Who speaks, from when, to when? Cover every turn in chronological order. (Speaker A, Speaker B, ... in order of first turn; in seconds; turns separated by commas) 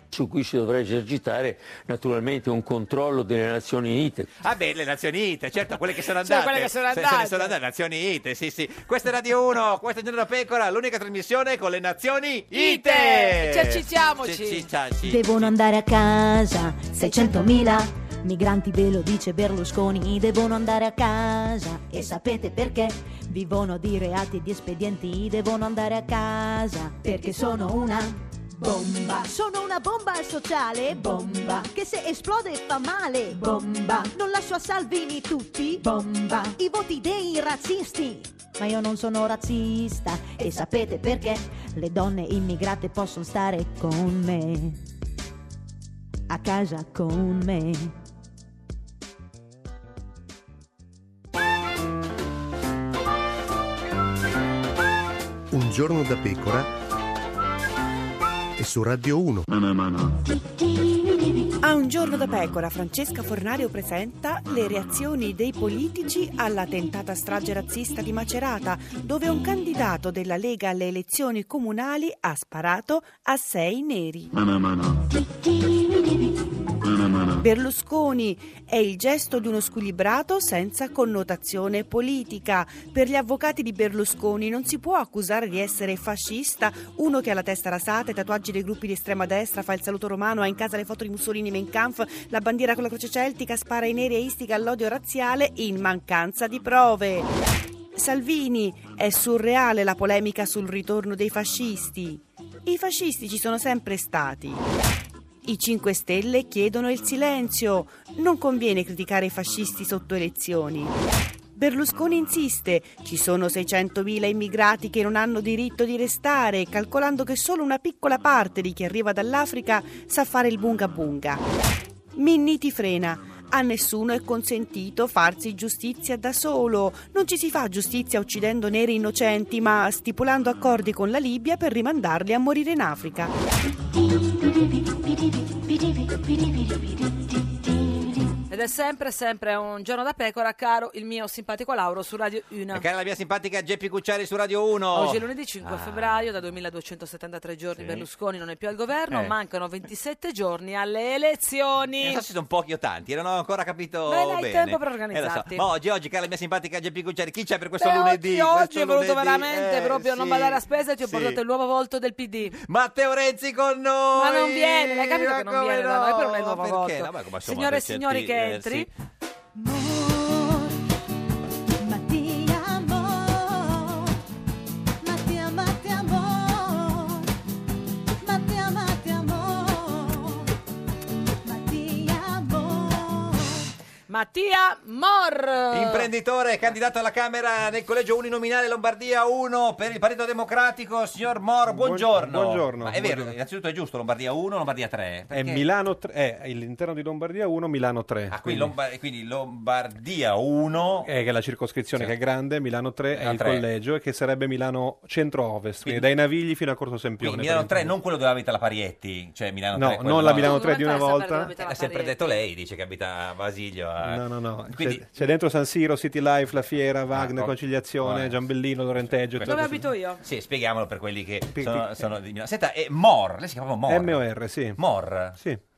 Speaker A: 0.1-4.3, Speaker B: 4.4-15.5, Speaker C: 6.2-7.5, Speaker C: 12.5-14.6, Speaker D: 15.0-44.8, Speaker D: 46.3-47.9, Speaker E: 55.5-56.7, Speaker E: 58.6-59.5, Speaker F: 61.6-74.3, Speaker F: 77.4-97.3, Speaker F: 97.9-104.6, Speaker F: 105.4-110.9, Speaker F: 111.5-121.4, Speaker F: 122.2-133.3, Speaker C: 138.5-142.8, Speaker B: 142.7-146.3, Speaker C: 144.9-152.2, Speaker B: 147.8-148.1, Speaker B: 152.0-161.4, Speaker C: 154.1-155.7, Speaker C: 157.8-162.6, Speaker B: 162.5-168.9, Speaker C: 164.2-168.9, Speaker D: 169.6-170.8, Speaker D: 171.8-174.2, Speaker D: 175.0-177.3, Speaker D: 178.2-180.5, Speaker D: 181.4-183.7, Speaker C: 184.1-186.1, Speaker B: 185.7-195.6, Speaker G: 191.7-193.3, Speaker G: 195.3-198.7, Speaker B: 198.3-201.1, Speaker G: 201.0-207.9, Speaker B: 203.1-203.6, Speaker B: 207.2-210.6, Speaker G: 209.7-211.5, Speaker C: 210.4-212.4, Speaker B: 211.6-215.0, Speaker G: 214.0-219.8, Speaker B: 217.1-218.4, Speaker B: 219.0-224.2, Speaker C: 219.4-220.2, Speaker G: 221.5-222.1, Speaker G: 223.9-224.8, Speaker B: 224.8-225.4, Speaker G: 225.3-225.6